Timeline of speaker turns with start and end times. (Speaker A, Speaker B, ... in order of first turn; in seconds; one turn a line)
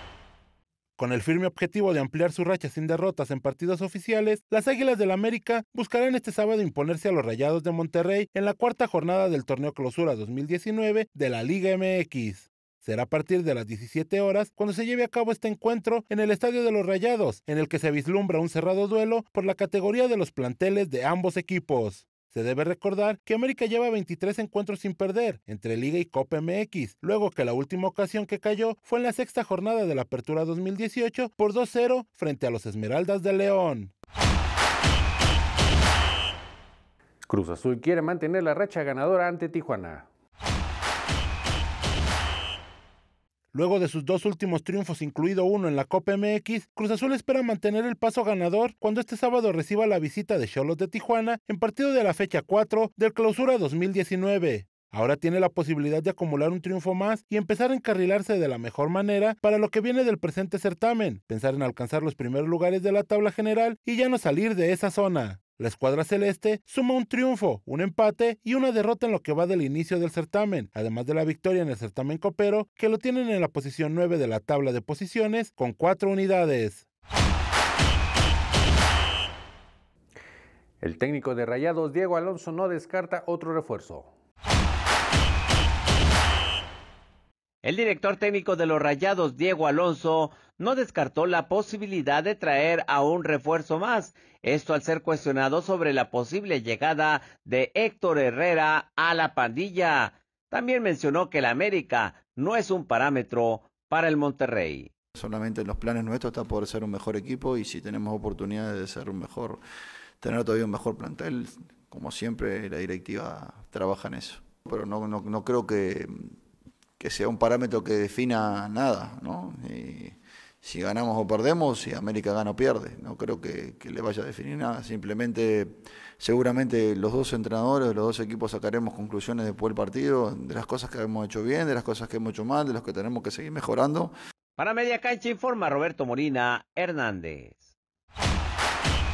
Speaker A: 1.0-33.9
Speaker B: 37.3-40.0
Speaker A: 43.5-76.8
Speaker B: 80.8-84.1
Speaker C: 87.6-104.9
Speaker D: 105.2-109.6
Speaker D: 110.2-116.3
Speaker D: 117.0-134.1
Speaker C: 134.6-137.7